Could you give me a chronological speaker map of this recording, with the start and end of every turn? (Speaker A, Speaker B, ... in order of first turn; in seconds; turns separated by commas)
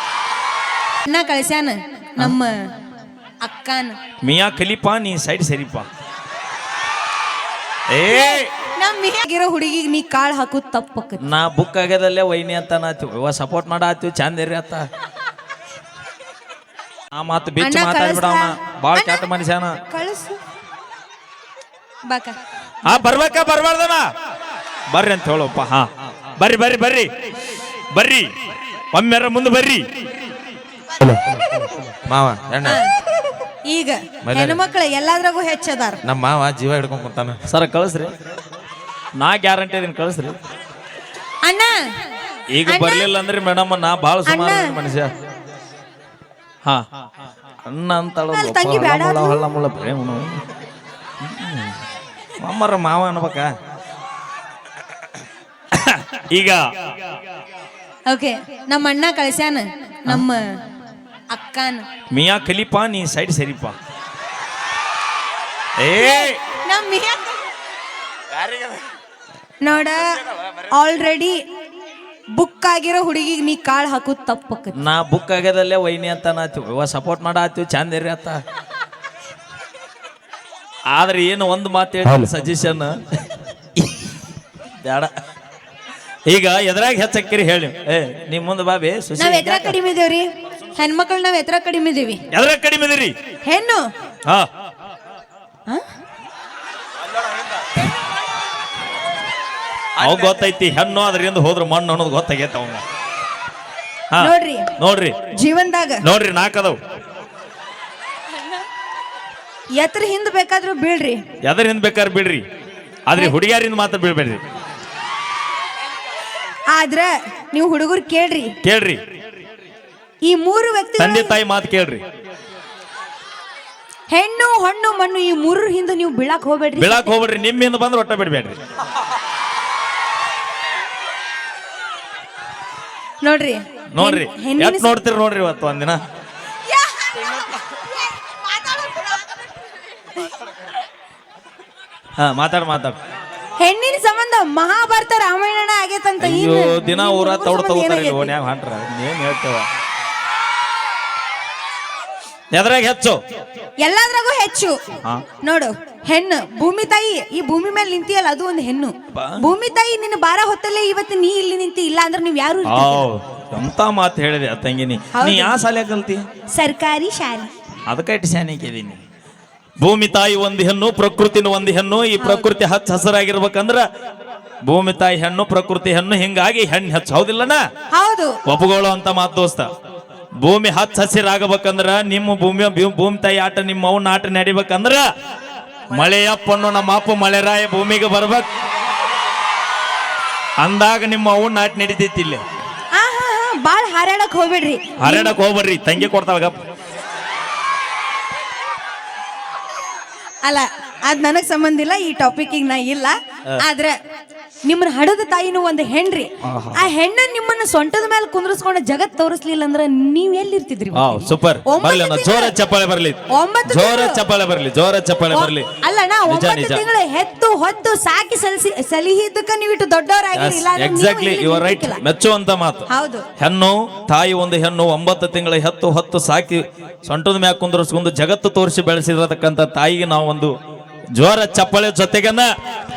Speaker A: 1.1-2.5, Speaker A: 3.4-4.0, Speaker B: 4.2-5.9, Speaker B: 7.9-8.5, Speaker A: 8.1-11.2, Speaker B: 11.2-14.9, Speaker B: 17.1-19.8, Speaker A: 17.6-19.3, Speaker A: 19.9-20.4, Speaker A: 22.1-22.4, Speaker B: 22.9-24.1, Speaker B: 24.9-25.9, Speaker B: 26.4-27.1, Speaker B: 27.9-28.3, Speaker B: 28.9-29.9, Speaker C: 31.0-32.8, Speaker A: 32.6-32.9, Speaker A: 33.6-36.0, Speaker C: 34.2-34.6, Speaker C: 36.0-37.4, Speaker B: 37.5-38.1, Speaker B: 39.2-40.4, Speaker A: 41.4-41.9, Speaker B: 42.5-45.1, Speaker A: 42.7-43.1, Speaker A: 44.3-44.7, Speaker B: 47.7-50.4, Speaker A: 48.3-49.4, Speaker B: 51.2-51.8, Speaker B: 52.4-53.5, Speaker B: 55.7-56.6, Speaker A: 58.1-60.6, Speaker A: 61.3-61.9, Speaker B: 62.1-63.8, Speaker B: 65.8-66.4, Speaker A: 65.9-67.4, Speaker A: 69.6-70.0, Speaker A: 70.7-71.4, Speaker A: 72.3-74.8, Speaker B: 74.8-78.4, Speaker B: 80.9-82.9, Speaker B: 84.8-85.1, Speaker B: 86.3-89.8, Speaker A: 89.2-92.2, Speaker B: 92.3-93.1, Speaker A: 93.4-93.8, Speaker B: 100.0-102.8, Speaker B: 104.1-105.2, Speaker A: 104.2-104.7, Speaker A: 105.3-106.0, Speaker B: 106.0-106.8, Speaker A: 109.7-111.2, Speaker B: 111.4-112.4, Speaker B: 113.1-114.4, Speaker A: 116.7-118.5, Speaker B: 118.6-119.0, Speaker A: 120.2-121.4, Speaker B: 121.0-122.0, Speaker A: 124.1-127.2, Speaker B: 126.8-128.6, Speaker A: 133.2-134.9, Speaker B: 133.9-136.0, Speaker A: 136.6-139.4, Speaker B: 142.2-143.0, Speaker A: 143.6-148.3, Speaker B: 146.2-149.7, Speaker B: 152.5-153.2, Speaker A: 153.8-154.8, Speaker A: 155.4-163.1, Speaker B: 162.7-166.2, Speaker A: 165.1-165.6, Speaker A: 166.5-167.5, Speaker B: 167.9-169.0, Speaker B: 169.8-173.8, Speaker A: 172.2-172.5, Speaker B: 174.7-177.6, Speaker A: 177.9-178.4, Speaker B: 178.5-179.7, Speaker B: 180.4-185.0, Speaker B: 185.9-188.5, Speaker B: 190.6-192.4, Speaker A: 192.9-195.3, Speaker B: 195.0-196.6, Speaker A: 200.4-204.0, Speaker A: 204.6-212.5, Speaker B: 206.4-206.9, Speaker B: 210.9-215.7, Speaker A: 213.3-214.2, Speaker A: 215.3-222.0, Speaker B: 216.3-216.8, Speaker B: 220.3-222.8, Speaker A: 222.9-223.2, Speaker B: 223.4-230.5, Speaker B: 231.2-232.5